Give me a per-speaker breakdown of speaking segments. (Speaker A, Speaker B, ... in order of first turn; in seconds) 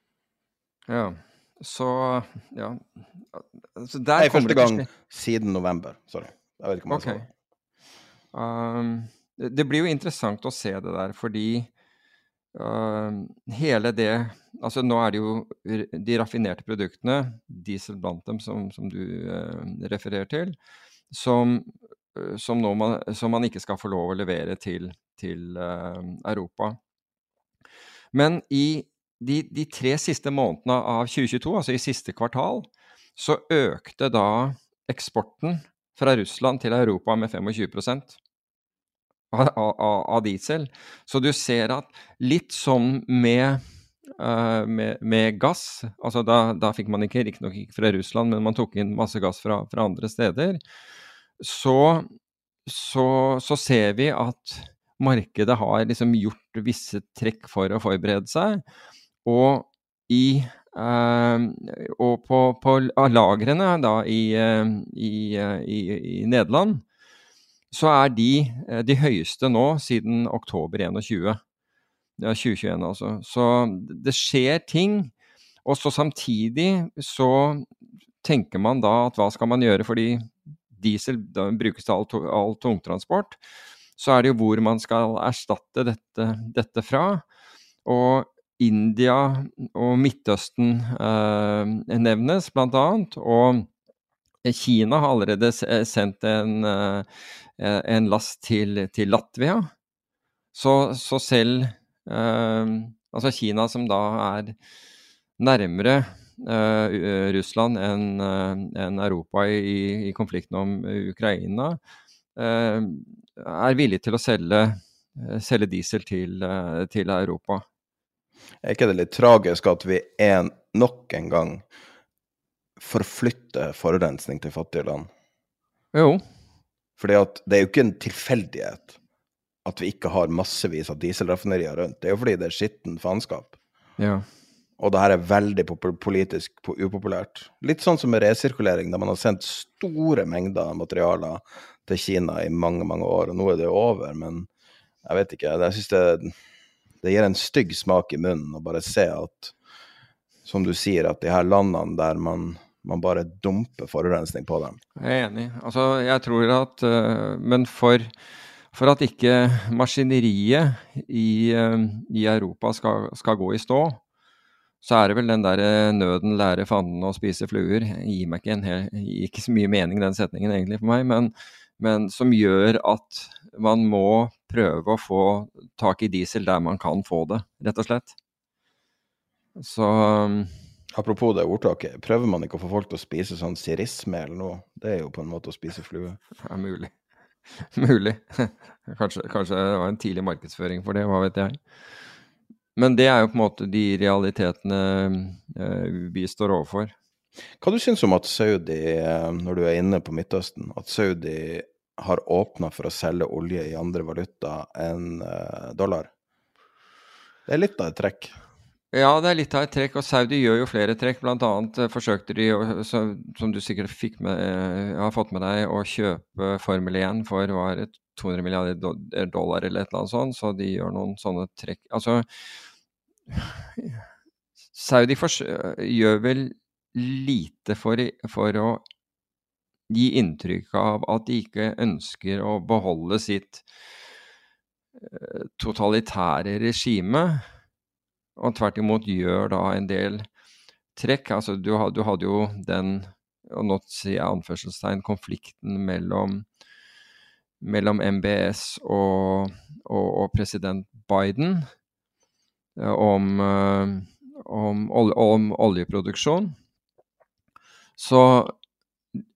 Speaker A: 0.9-4.9, 6.9-7.2, 8.3-11.7, 12.5-20.6, 21.1-26.8, 28.1-38.1, 39.3-43.6, 44.2-50.6, 51.4-52.1, 52.6-58.6, 59.2-66.8, 67.7-71.4, 72.2-75.1, 75.6-77.7, 78.2-83.4, 84.0-87.2, 87.8-93.7, 94.4-97.0, 97.6-99.7, 100.5-104.5, 105.4-111.8, 112.3-117.6, 125.9-126.2, 134.0-134.2, 155.0-158.1, 158.7-164.0, 164.8-178.1, 179.6-180.5, 186.4-186.9, 187.7-191.6, 192.8-196.9, 208.9-222.2, 223.3-224.0, 224.7-228.8, 229.9-233.6, 235.0-237.4, 238.4-240.3, 240.9-246.4, 247.6-251.7, 252.8-256.6, 258.0-258.6
Speaker B: 4.2-7.3, 118.6-121.6, 122.8-125.1, 127.0-128.9, 129.6-133.6, 134.8-144.5, 145.0-146.3, 147.0-149.5, 150.4-154.8, 180.9-186.2, 197.6-206.1, 207.5-208.3